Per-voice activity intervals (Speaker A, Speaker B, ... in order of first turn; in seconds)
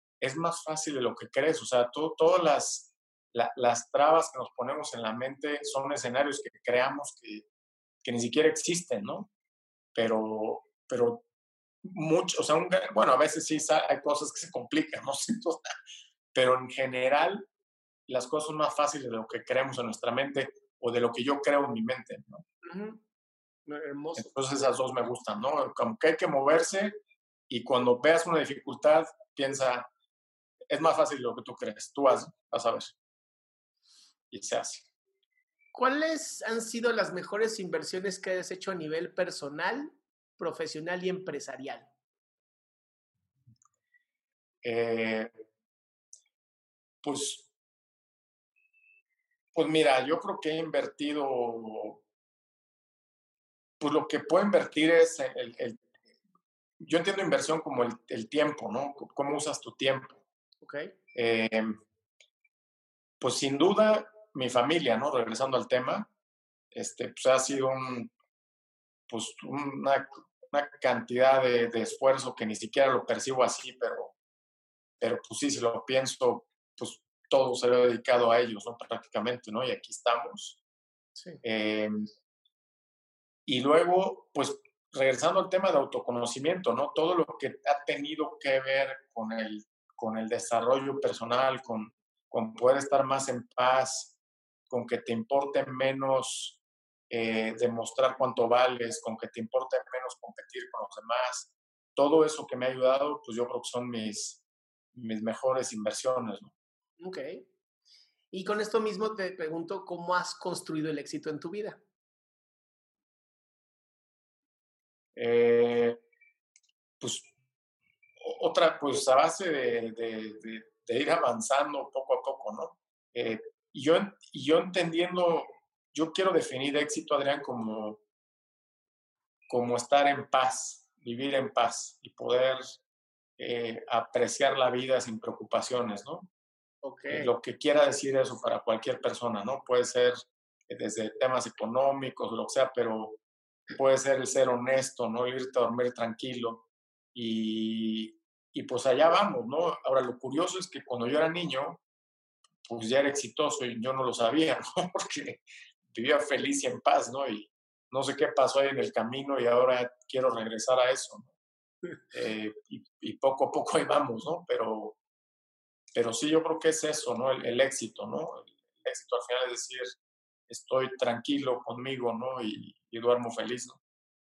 Speaker A: 0.2-7.5, 8.0-9.3, 9.9-11.2, 11.8-15.7, 16.3-17.5, 18.1-22.4, 24.1-26.9, 27.5-29.9, 30.7-32.9, 34.3-34.8, 44.6-45.3, 47.0-47.5, 49.5-52.0, 53.8-55.8, 56.8-60.2, 61.1-61.7, 63.2-66.1, 66.7-68.1, 69.1-74.1, 75.0-80.6, 81.4-82.0, 83.5-94.1, 94.7-104.4, 104.9-106.5, 115.2-116.0, 117.0-117.3, 118.2-128.0, 129.5-132.8, 133.4-136.3, 137.1-143.2, 143.7-151.8, 152.6-161.3, 162.1-165.0, 165.9-169.9, 170.5-173.8
Speaker B: 22.6-23.0, 23.7-24.4, 35.7-41.9, 60.6-60.9, 81.2-81.4, 107.0-107.4, 108.3-111.8, 136.8-137.3